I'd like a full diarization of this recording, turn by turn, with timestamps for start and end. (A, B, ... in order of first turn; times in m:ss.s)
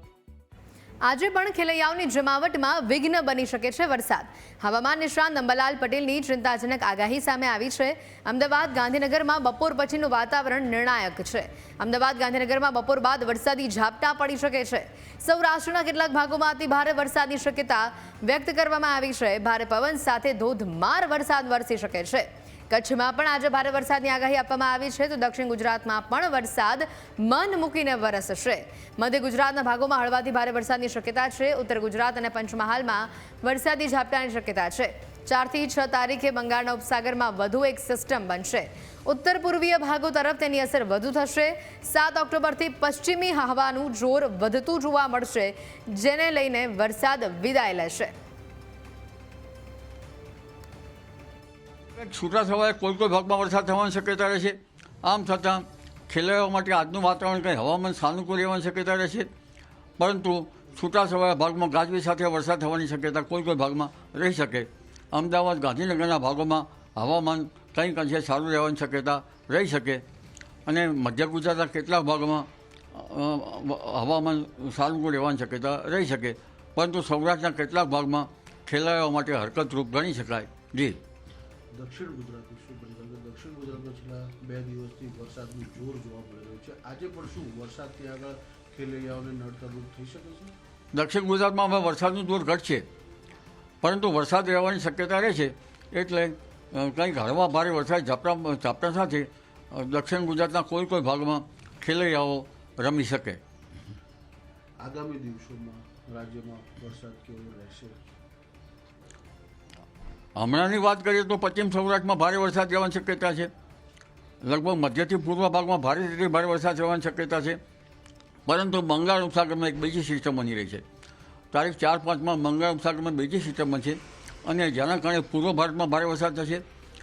0:01.1-0:48.1 A
0:52.0-0:59.3 B
1:00.0-1:10.0 B
1:10.6-1:21.0 B
1:21.8-1:30.5 C
1:30.9-1:32.8 B
1:33.8-1:43.4 B
1:44.8-1:48.0 C
1:50.4-1:53.5 B
1:54.4-1:57.6 B
1:58.4-2:00.8 B
2:01.5-2:06.6 B